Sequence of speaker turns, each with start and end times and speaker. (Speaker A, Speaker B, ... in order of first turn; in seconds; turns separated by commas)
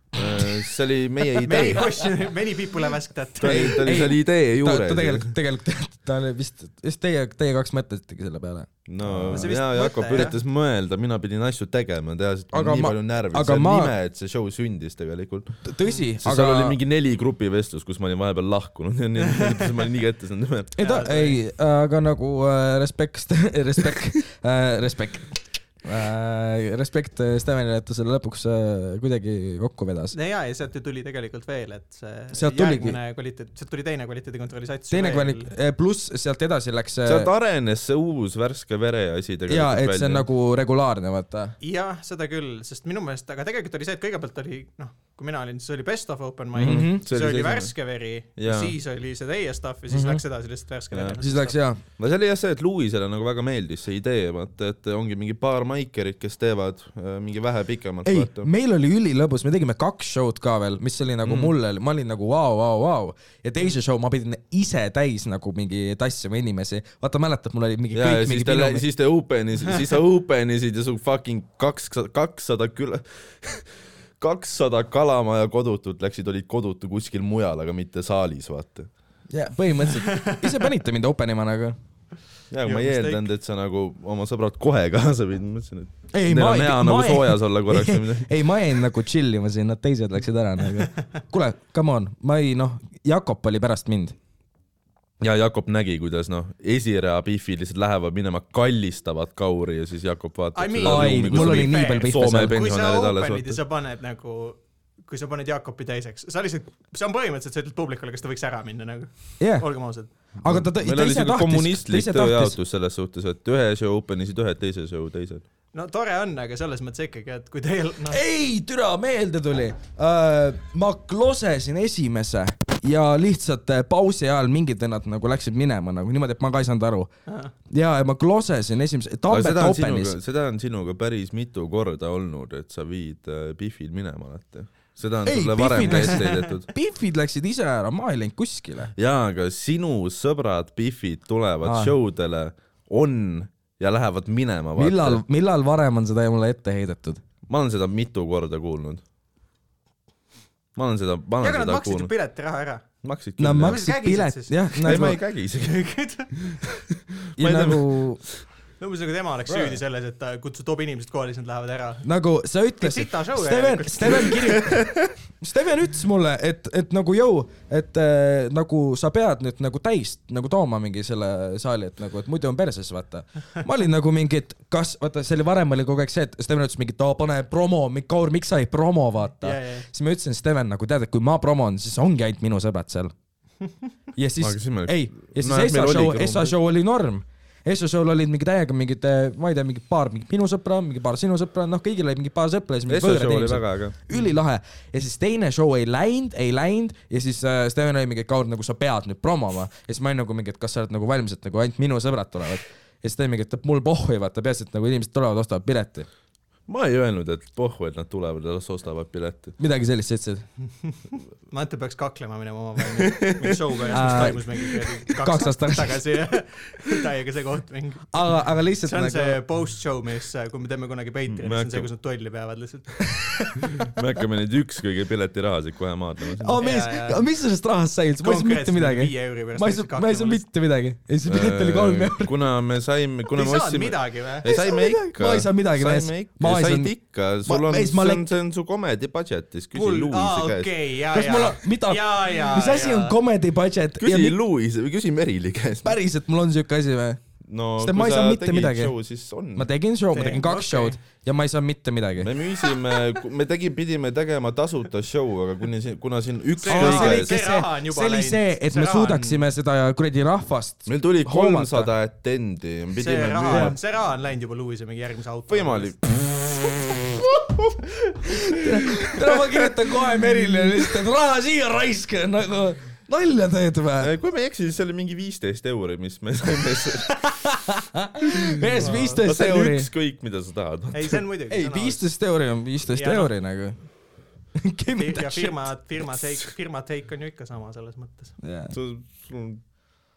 Speaker A: 0.1-1.9, Speaker B: 0.2-0.4, Speaker C: 1.4-3.9, Speaker A: 3.4-5.3, Speaker B: 3.4-9.5, Speaker A: 8.9-15.7, Speaker C: 9.3-10.4, Speaker B: 12.5-13.9, Speaker B: 15.7-16.8, Speaker A: 16.2-20.8, Speaker B: 20.8-30.1, Speaker C: 20.8-21.4, Speaker C: 30.1-35.5, Speaker B: 32.3-33.0, Speaker B: 34.9-37.3, Speaker A: 37.0-40.3, Speaker B: 39.5-41.6, Speaker C: 41.6-51.6, Speaker B: 46.6-47.0, Speaker A: 46.6-47.8, Speaker A: 48.4-48.7, Speaker B: 49.9-50.2, Speaker A: 50.9-51.2, Speaker B: 51.2-51.8, Speaker A: 52.0-58.5, Speaker B: 58.0-68.9, Speaker A: 61.2-61.5, Speaker A: 67.9-78.9, Speaker B: 79.3-81.8, Speaker C: 79.9-80.7, Speaker A: 82.5-88.3, Speaker C: 82.7-83.2, Speaker B: 86.1-94.2, Speaker A: 95.2-103.6, Speaker C: 100.5-110.1, Speaker B: 100.8-102.6, Speaker B: 109.4-109.7, Speaker B: 110.4-112.6, Speaker A: 110.4-115.4, Speaker C: 115.7-118.2, Speaker B: 118.1-127.1, Speaker C: 127.3-127.5, Speaker B: 127.7-130.2, Speaker A: 129.3-136.7, Speaker B: 135.2-138.9, Speaker C: 135.8-136.4, Speaker A: 139.0-145.2, Speaker B: 141.6-141.9, Speaker B: 144.8-147.2, Speaker A: 147.5-149.0, Speaker A: 150.8-152.1, Speaker C: 151.4-152.8, Speaker A: 153.0-153.8, Speaker B: 153.4-155.2, Speaker C: 153.6-156.6, Speaker A: 154.8-155.9, Speaker A: 157.3-158.4, Speaker B: 157.4-158.2, Speaker C: 158.8-162.1, Speaker B: 159.5-159.8, Speaker B: 162.0-183.1, Speaker C: 162.8-164.6, Speaker C: 179.4-179.9, Speaker B: 184.2-206.1, Speaker A: 184.4-186.5, Speaker A: 192.9-194.0, Speaker A: 206.7-209.6, Speaker B: 209.6-210.4, Speaker C: 210.8-223.6, Speaker A: 213.2-214.2, Speaker B: 213.9-216.0, Speaker B: 218.1-219.4, Speaker A: 221.3-221.9, Speaker A: 223.8-226.6, Speaker B: 226.4-232.4, Speaker C: 226.6-227.3, Speaker C: 228.2-230.5, Speaker A: 231.2-240.7, Speaker C: 233.3-234.6, Speaker B: 234.5-238.3, Speaker C: 239.7-243.2, Speaker B: 241.1-244.4, Speaker A: 244.0-246.0, Speaker B: 245.8-247.2, Speaker A: 247.5-249.7, Speaker B: 247.8-248.9, Speaker B: 249.6-252.3, Speaker C: 250.1-251.0, Speaker A: 252.2-257.4, Speaker C: 256.6-259.5, Speaker B: 256.7-261.9, Speaker A: 260.9-263.8, Speaker C: 263.0-266.0, Speaker A: 265.5-266.8, Speaker B: 268.3-274.1, Speaker A: 274.0-277.2, Speaker B: 277.3-279.9, Speaker A: 278.8-281.2, Speaker C: 278.8-279.2, Speaker C: 280.9-282.1, Speaker B: 281.5-283.8, Speaker C: 282.9-283.3, Speaker B: 284.6-285.6, Speaker C: 285.0-288.4, Speaker B: 288.4-288.8, Speaker A: 288.7-289.6